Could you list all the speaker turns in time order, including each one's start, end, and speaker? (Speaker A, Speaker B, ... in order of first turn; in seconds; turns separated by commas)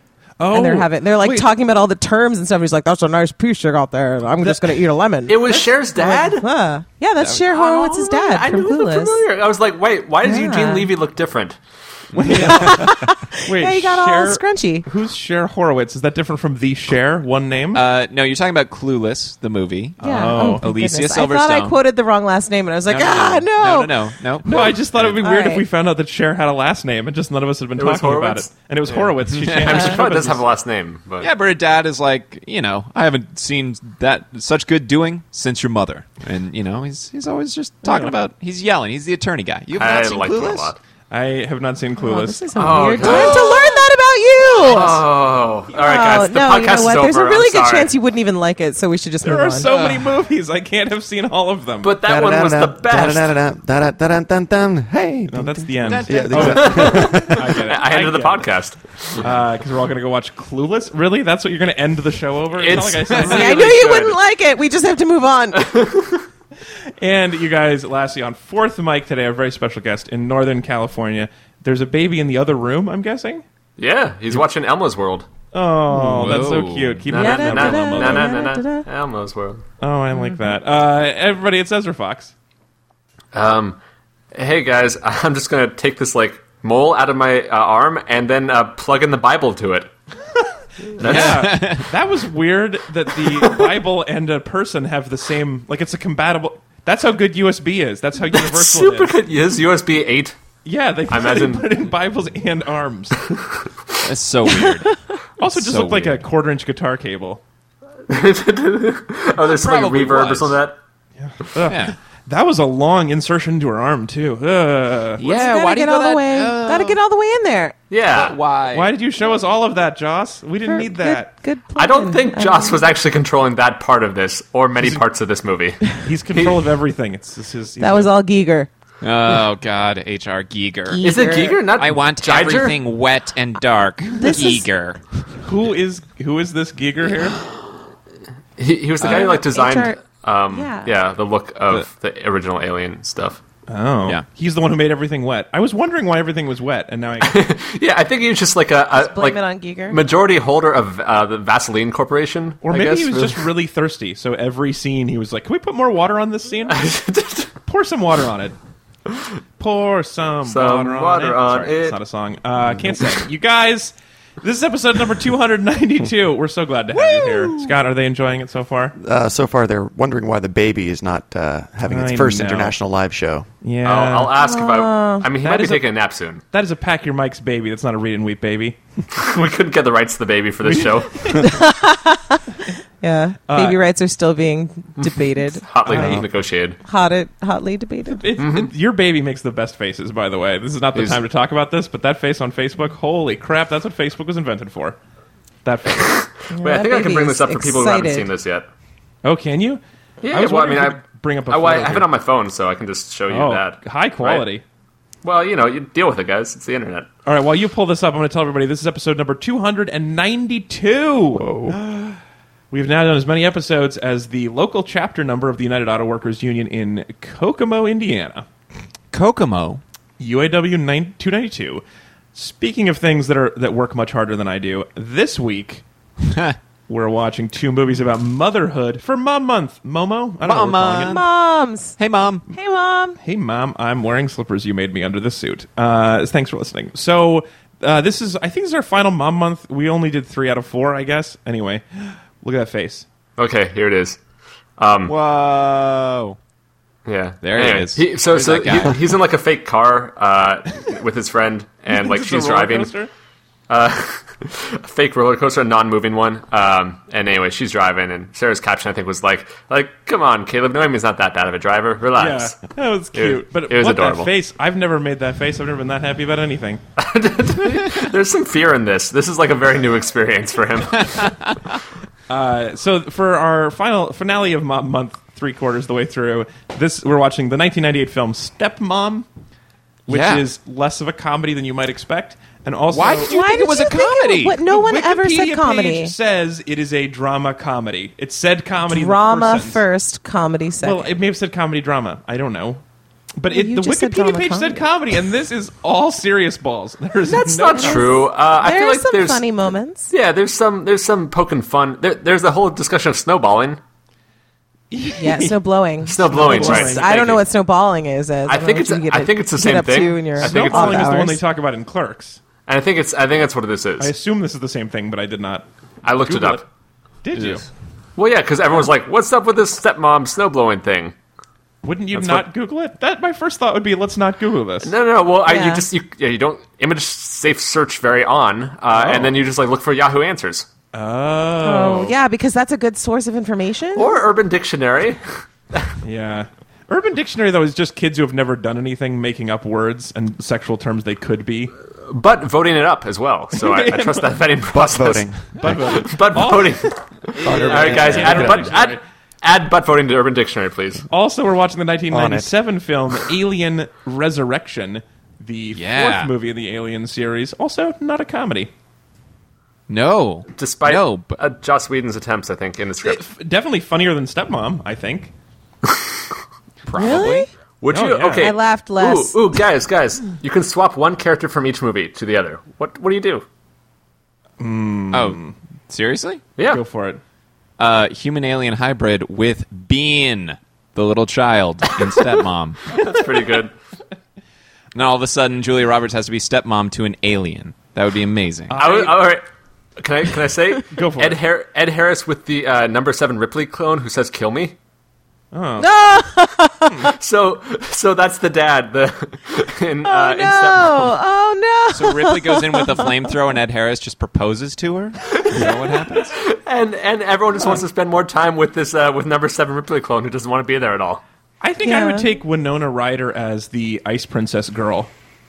Speaker A: 0.4-1.5, Speaker B: 0.5-9.2, Speaker A: 4.4-4.8, Speaker C: 5.3-6.5, Speaker C: 7.5-11.6, Speaker B: 10.2-10.9, Speaker D: 12.1-12.9, Speaker A: 12.2-17.8, Speaker B: 12.3-14.9, Speaker D: 17.7-21.8, Speaker B: 20.0-24.0, Speaker A: 20.0-20.7, Speaker D: 22.9-25.2, Speaker A: 24.4-30.4, Speaker B: 25.2-25.6, Speaker C: 27.8-31.3, Speaker D: 29.3-30.0, Speaker D: 31.2-40.7, Speaker A: 37.8-38.2, Speaker C: 39.8-40.8, Speaker A: 41.1-43.4, Speaker B: 42.0-45.0, Speaker C: 42.6-43.7, Speaker C: 44.6-47.9, Speaker B: 45.7-49.7, Speaker A: 49.2-52.0, Speaker D: 49.6-50.1, Speaker C: 51.8-53.4, Speaker E: 52.0-57.5, Speaker A: 55.3-58.6, Speaker D: 55.8-56.9, Speaker C: 56.4-59.2, Speaker A: 59.1-63.9, Speaker C: 62.5-64.2, Speaker B: 63.2-65.8, Speaker C: 65.6-66.2, Speaker A: 67.0-73.4, Speaker C: 73.8-75.3, Speaker A: 75.5-78.4, Speaker D: 75.9-77.1, Speaker C: 77.1-79.7, Speaker B: 77.1-78.9, Speaker A: 79.8-82.3, Speaker C: 83.3-83.8, Speaker C: 84.3-89.9, Speaker C: 90.9-91.5, Speaker A: 91.0-99.2, Speaker D: 91.0-91.9, Speaker C: 93.3-93.7, Speaker C: 98.3-100.4, Speaker A: 100.6-103.2, Speaker C: 101.1-101.8, Speaker D: 104.0-106.2, Speaker A: 105.4-107.4, Speaker C: 108.1-110.8, Speaker D: 109.4-110.6, Speaker A: 111.2-115.2, Speaker D: 111.7-112.0, Speaker D: 115.2-117.0, Speaker B: 115.2-117.8, Speaker C: 117.9-118.4, Speaker D: 118.1-118.9, Speaker A: 118.7-121.3, Speaker B: 120.7-122.9, Speaker C: 121.8-126.6, Speaker A: 124.8-125.0, Speaker A: 125.9-128.1, Speaker B: 127.8-128.7, Speaker D: 129.0-131.0, Speaker B: 130.9-131.6, Speaker C: 131.0-132.8, Speaker D: 131.8-135.0, Speaker B: 134.2-134.7, Speaker A: 135.4-137.4, Speaker C: 138.6-143.4, Speaker B: 139.0-140.0, Speaker B: 140.5-140.9, Speaker A: 143.7-147.5, Speaker C: 147.2-153.4, Speaker B: 148.9-150.0, Speaker A: 152.6-156.9, Speaker C: 156.7-157.5, Speaker A: 157.6-158.6, Speaker A: 159.6-168.9, Speaker C: 160.5-162.0, Speaker D: 166.9-167.7, Speaker E: 169.0-173.5, Speaker A: 171.8-172.8, Speaker A: 173.6-174.4, Speaker C: 173.8-176.4, Speaker B: 174.4-175.3, Speaker A: 175.4-175.9, Speaker A: 176.5-178.8, Speaker C: 179.1-181.4, Speaker A: 180.6-181.6, Speaker B: 181.3-182.4, Speaker B: 183.0-185.7, Speaker A: 183.5-183.8, Speaker C: 185.0-186.8, Speaker A: 185.9-186.3, Speaker B: 186.8-188.3, Speaker A: 188.1-195.0, Speaker C: 188.4-188.7, Speaker C: 190.9-191.2, Speaker A: 195.7-196.2, Speaker C: 196.0-198.7, Speaker B: 196.5-198.3, Speaker A: 199.2-202.1, Speaker C: 200.2-204.4, Speaker A: 203.3-204.6, Speaker C: 205.2-207.1, Speaker A: 207.2-212.2, Speaker A: 212.7-218.5, Speaker D: 219.1-219.8, Speaker A: 220.2-221.8, Speaker A: 222.3-225.8, Speaker D: 226.2-226.6, Speaker A: 226.9-231.3, Speaker D: 230.4-231.3, Speaker B: 231.0-232.0, Speaker D: 232.0-232.4, Speaker B: 232.5-233.2, Speaker A: 233.2-243.1, Speaker C: 243.4-244.2, Speaker C: 244.8-245.1, Speaker D: 245.1-246.4, Speaker C: 247.1-252.9, Speaker D: 247.4-249.2, Speaker A: 251.9-253.1, Speaker C: 253.7-262.6, Speaker A: 262.1-266.8, Speaker C: 263.1-264.3, Speaker C: 267.0-271.3, Speaker D: 271.0-271.8, Speaker A: 272.3-279.3, Speaker A: 280.1-283.4, Speaker D: 280.1-280.4, Speaker D: 282.9-284.6, Speaker B: 283.2-286.1, Speaker A: 284.6-289.8, Speaker B: 288.9-291.1, Speaker A: 290.8-292.8, Speaker A: 293.4-298.3, Speaker B: 293.5-294.9, Speaker C: 297.3-299.5, Speaker B: 297.7-300.1, Speaker C: 300.1-303.8, Speaker A: 304.9-305.6, Speaker B: 305.2-311.4, Speaker C: 306.1-307.4, Speaker A: 306.3-307.2, Speaker C: 308.5-311.2, Speaker A: 310.4-312.4, Speaker C: 312.7-314.1, Speaker A: 314.0-316.6, Speaker C: 316.0-316.6, Speaker A: 317.2-317.7, Speaker C: 318.2-321.1, Speaker A: 321.8-324.9, Speaker C: 322.1-322.4, Speaker C: 324.8-330.7, Speaker B: 325.5-325.9, Speaker A: 328.9-329.4, Speaker A: 330.9-332.2, Speaker B: 331.6-334.2, Speaker C: 334.0-335.9, Speaker A: 336.0-341.7, Speaker C: 342.1-351.1, Speaker A: 343.5-344.5, Speaker E: 344.7-345.6, Speaker A: 345.6-349.0, Speaker E: 347.4-348.7, Speaker A: 351.1-358.7, Speaker E: 352.1-352.5, Speaker D: 355.7-356.3, Speaker D: 359.9-361.4, Speaker C: 360.6-363.2, Speaker A: 363.0-365.3, Speaker D: 366.9-367.5, Speaker B: 366.9-367.5, Speaker C: 367.8-373.4, Speaker A: 367.9-368.6, Speaker B: 368.4-369.4, Speaker A: 374.6-375.5, Speaker D: 375.1-376.4, Speaker C: 376.6-376.8, Speaker A: 376.6-377.2, Speaker D: 377.8-383.0, Speaker C: 382.9-383.7, Speaker D: 384.9-388.8, Speaker A: 388.7-389.3, Speaker C: 388.8-389.4, Speaker C: 390.0-394.8, Speaker A: 390.9-391.4, Speaker A: 395.5-395.9, Speaker B: 395.8-397.1, Speaker C: 397.2-401.1, Speaker B: 400.0-403.2, Speaker D: 401.9-406.4, Speaker C: 405.5-411.2, Speaker A: 411.6-415.1, Speaker B: 411.8-412.3